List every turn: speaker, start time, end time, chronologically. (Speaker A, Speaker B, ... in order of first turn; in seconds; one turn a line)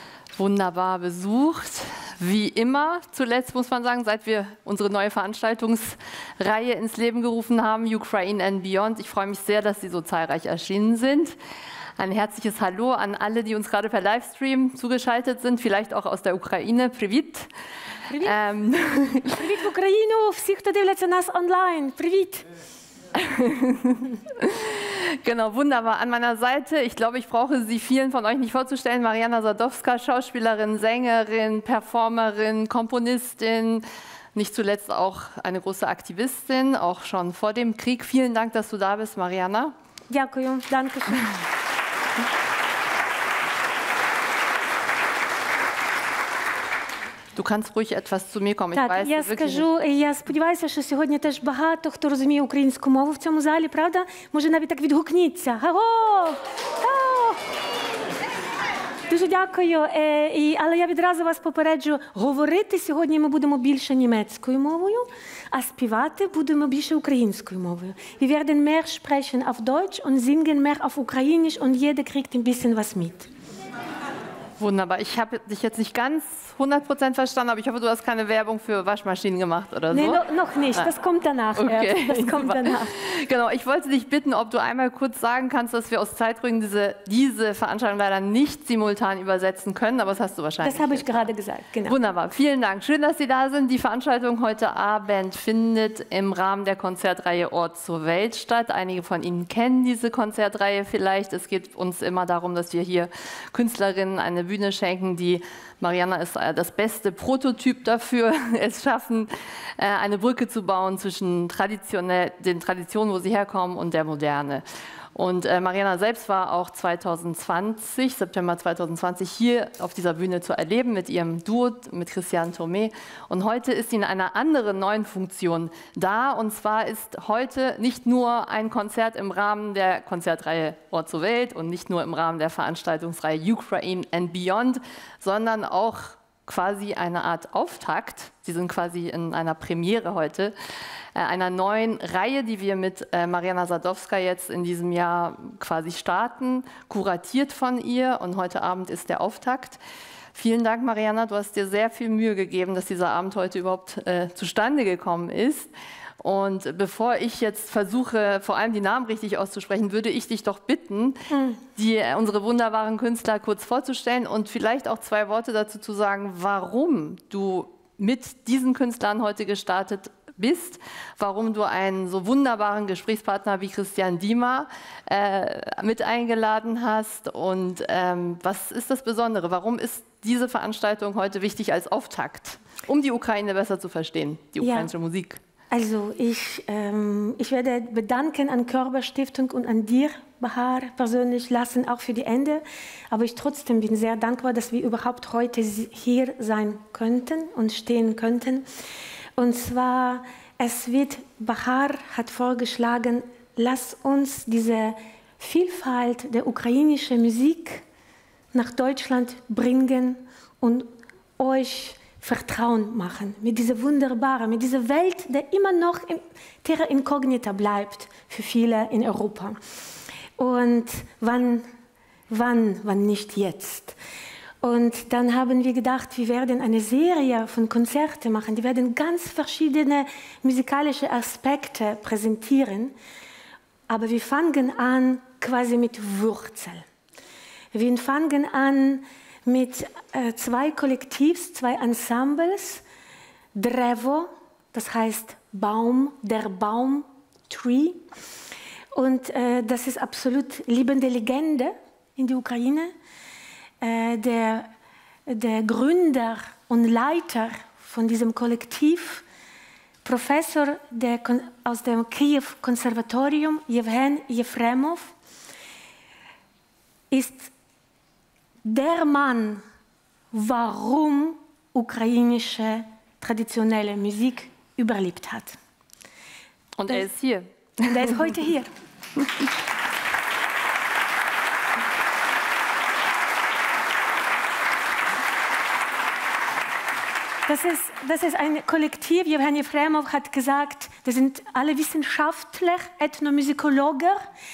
Speaker A: 0.3-11.4
Speaker A: 12.0-17.5
Speaker B: 18.1-18.4
Speaker A: 18.2-19.4
Speaker B: 19.1-22.4
Speaker A: 23.1-39.7
Speaker B: 40.1-41.4
Speaker A: 47.3-49.7
Speaker B: 48.7-57.4
Speaker B: 59.1-73.3
Speaker A: 74.6-80.2
Speaker B: 79.9-82.9
Speaker A: 81.5-91.3
Speaker B: 90.6-92.0
Speaker A: 91.8-140.5
Speaker A: 141.1-149.8
Speaker A: 150.3-185.4
Speaker B: 161.3-161.6
Speaker B: 184.6-184.9
Speaker B: 185.7-198.7
Speaker B: 199.4-207.8
Speaker B: 208.5-219.6
Speaker B: 220.4-221.7
Speaker B: 222.3-224.0
Speaker B: 224.6-232.9
Speaker B: 233.9-236.8
Speaker B: 237.7-242.8
Speaker B: 243.5-248.0
Speaker B: 248.9-252.9
Speaker B: 253.8-254.7
Speaker B: 255.3-259.2
Speaker B: 260.0-265.1
Speaker B: 267.1-267.5
Speaker B: 268.6-269.6
Speaker B: 270.3-275.6
Speaker A: 276.8-278.3
Speaker B: 277.8-278.7
Speaker B: 287.5-294.2